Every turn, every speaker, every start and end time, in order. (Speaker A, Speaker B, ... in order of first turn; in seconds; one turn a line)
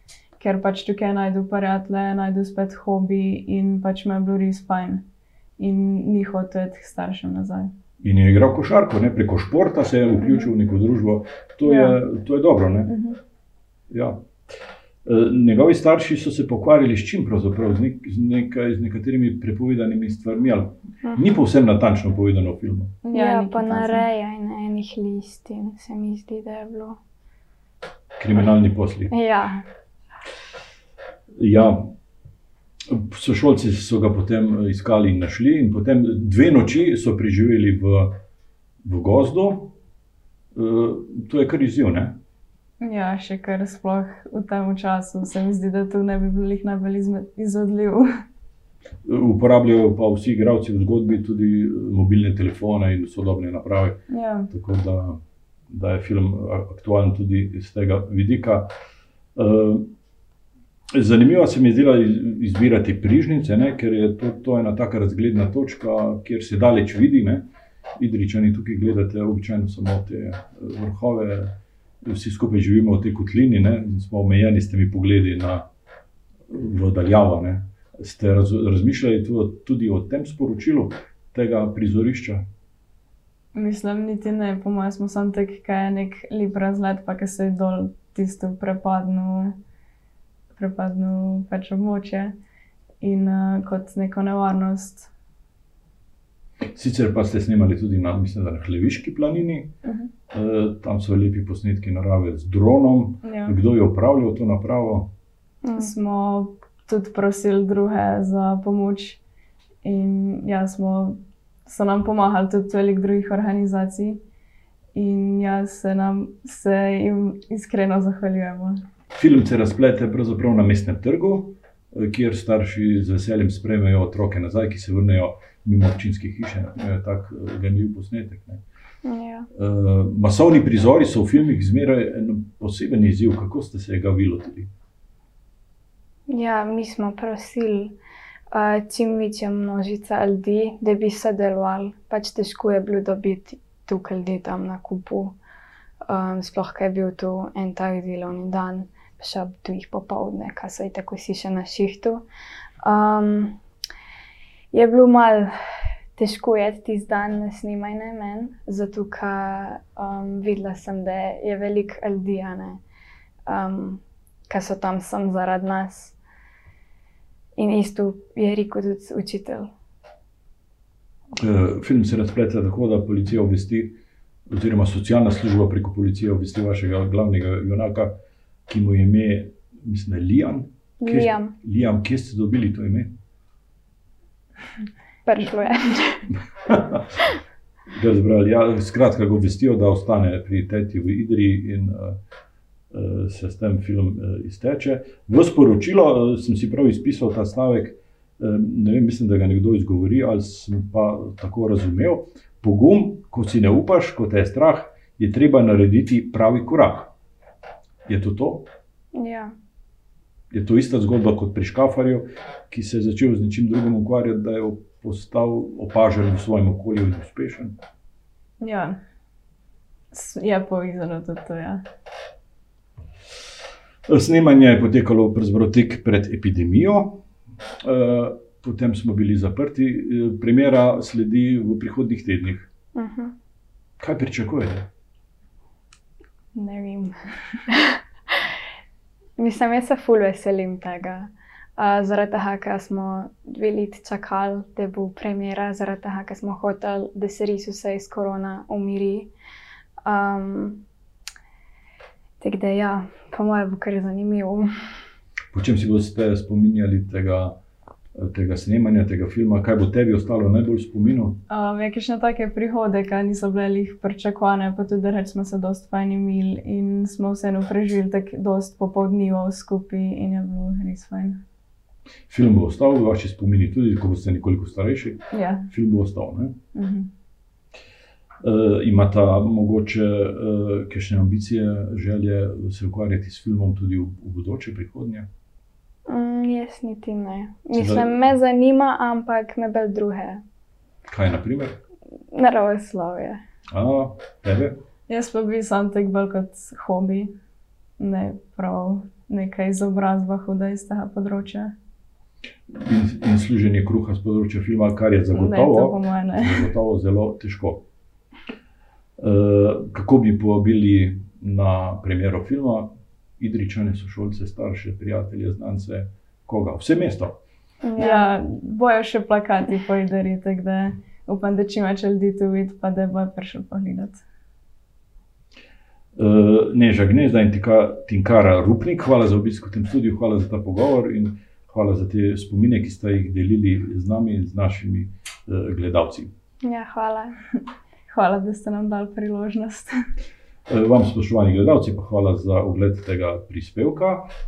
Speaker A: 0.4-5.0
Speaker A: 5.6-7.7
Speaker B: 8.0-12.9
Speaker A: 11.6-12.0
Speaker A: 12.9-13.2
Speaker B: 13.9-14.2
Speaker B: 15.0-22.9
Speaker A: 23.0-24.0
Speaker C: 23.1-27.0
Speaker B: 28.2-29.1
Speaker C: 29.1-29.6
Speaker B: 31.4-31.9
Speaker B: 32.9-38.2
Speaker B: 38.8-39.7
Speaker B: 40.5-42.2
Speaker A: 42.8-48.0
Speaker B: 49.0-58.7
Speaker A: 54.1-54.5
Speaker B: 59.4-59.9
Speaker B: 60.9-75.7
Speaker B: 76.5-82.4
Speaker A: 83.5-89.6
Speaker A: 90.6-92.3
Speaker A: 93.0-95.1
Speaker B: 96.7-99.7
Speaker A: 99.8-100.1
Speaker B: 100.3-105.1
Speaker A: 103.2-103.5
Speaker C: 105.6-105.9
Speaker A: 105.8-109.2
Speaker A: 109.8-114.2
Speaker A: 114.9-118.8
Speaker B: 119.1-128.6
Speaker C: 129.0-129.5
Speaker B: 129.5-134.7
Speaker C: 136.3-137.9
Speaker C: 138.5-145.3
Speaker C: 146.1-152.2
Speaker C: 152.8-153.6
Speaker C: 154.7-162.8
Speaker C: 163.5-166.2
Speaker C: 167.6-169.7
Speaker B: 171.4-174.0
Speaker B: 174.5-178.1
Speaker B: 178.7-183.1
Speaker C: 181.0-181.5
Speaker C: 185.2-186.3
Speaker B: 186.7-187.0
Speaker B: 187.9-192.2
Speaker B: 192.9-207.1
Speaker B: 208.1-208.7
Speaker C: 209.1-209.5
Speaker B: 210.5-217.8
Speaker A: 218.6-219.0
Speaker A: 220.1-221.8
Speaker B: 224.1-227.2
Speaker B: 227.8-232.7
Speaker C: 232.9-233.3
Speaker B: 234.0-234.9
Speaker C: 236.5-237.2
Speaker C: 237.7-238.0
Speaker C: 239.4-249.3
Speaker C: 250.0-250.8
Speaker C: 252.4-254.7
Speaker B: 255.5-257.6
Speaker B: 258.1-261.4
Speaker A: 261.5-271.4
Speaker B: 272.3-276.6
Speaker A: 275.3-275.7
Speaker A: 276.7-277.1
Speaker B: 278.4-285.3
Speaker C: 286.1-290.4
Speaker B: 287.7-288.1
Speaker B: 291.1-291.8
Speaker C: 292.3-293.4
Speaker B: 293.7-294.8
Speaker A: 295.1-297.3
Speaker A: 298.0-301.7
Speaker B: 302.7-307.8
Speaker A: 305.3-306.7
Speaker B: 309.2-317.4
Speaker C: 317.8-318.3
Speaker A: 318.0-324.2
Speaker B: 326.1-336.3
Speaker C: 336.6-337.4
Speaker A: 338.1-339.9
Speaker B: 340.7-344.3